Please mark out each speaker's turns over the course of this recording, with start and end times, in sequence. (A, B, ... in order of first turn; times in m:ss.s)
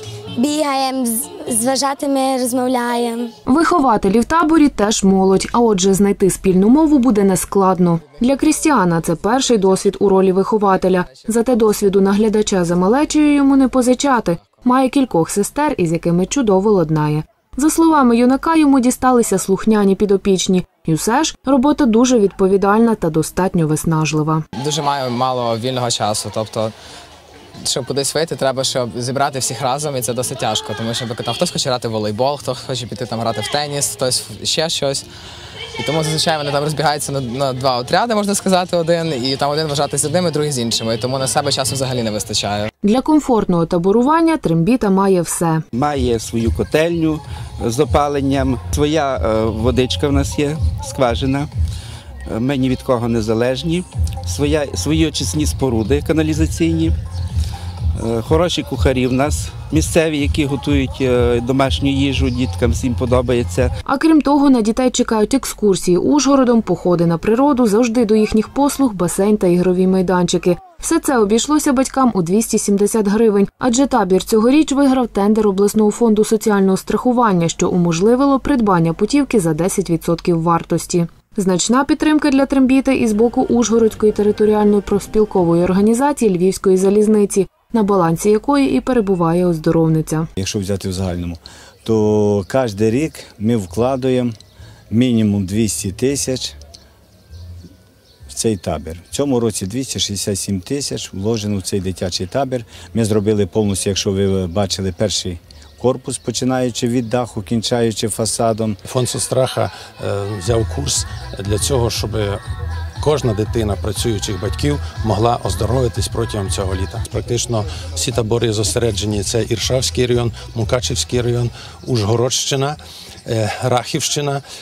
0:00.4-0:03.3 A
0:03.4-0:24.4 B
0:24.6-0:26.7 C
0:27.6-0:35.0 C
0:35.8-0:42.7 C
0:42.8-0:45.6 B
0:45.7-0:51.5 D
0:52.3-0:57.0 D
0:57.9-1:03.7 D
1:03.8-1:30.3 B
1:30.4-1:34.3 E
1:34.9-1:36.5 E
1:38.3-1:48.8 E
1:48.8-1:52.4 F
1:53.0-2:04.4 F